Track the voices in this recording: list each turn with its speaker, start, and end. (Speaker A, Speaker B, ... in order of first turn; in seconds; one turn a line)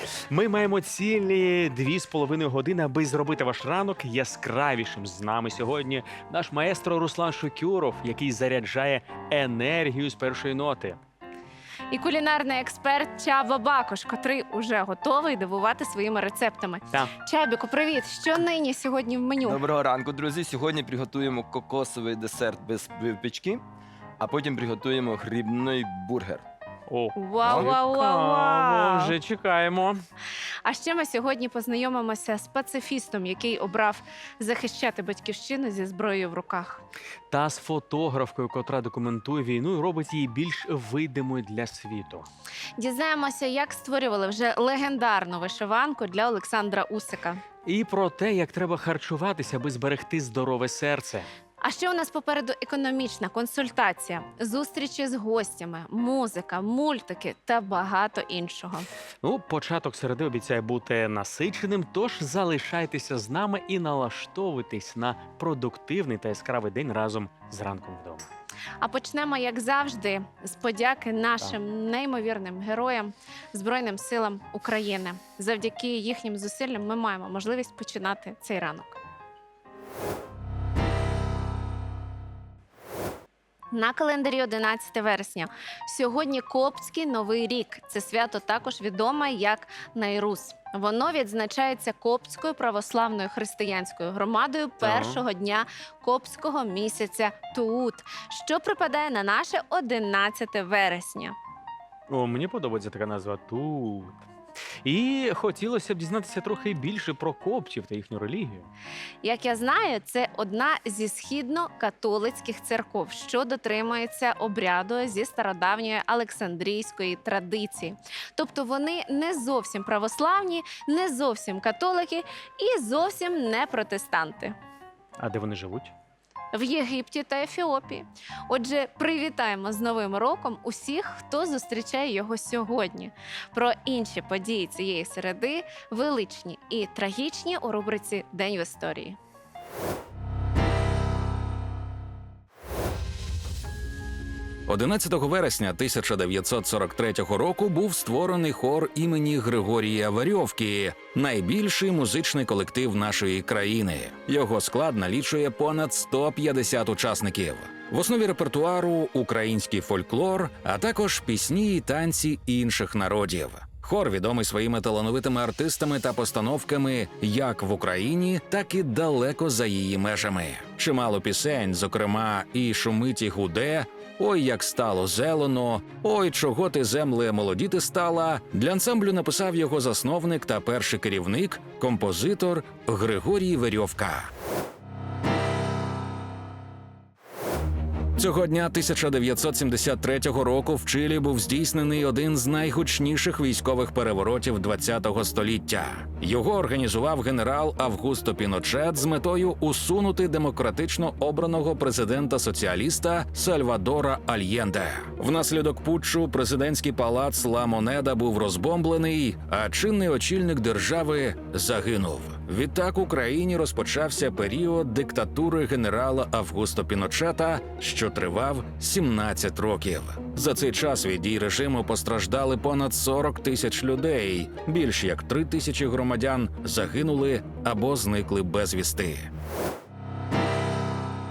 Speaker A: 0.3-11.0
Speaker B: 11.9-19.6
Speaker C: 19.4-23.6
Speaker C: 24.2-26.4
Speaker A: 26.9-30.0
Speaker B: 27.1-29.1
Speaker C: 27.4-27.7
Speaker B: 30.6-36.8
Speaker A: 37.3-42.3
Speaker B: 42.8-47.4
Speaker A: 47.6-51.3
Speaker B: 51.6-58.9
Speaker A: 59.2-68.3
Speaker B: 68.8-79.0
Speaker B: 83.7-101.3
Speaker A: 94.8-95.2
Speaker A: 102.1-104.1
Speaker A: 104.8-108.7
Speaker B: 109.2-124.5
Speaker A: 125.2-125.9
Speaker B: 126.5-139.2
Speaker D: 144.7-184.3
Speaker D: 188.2-229.3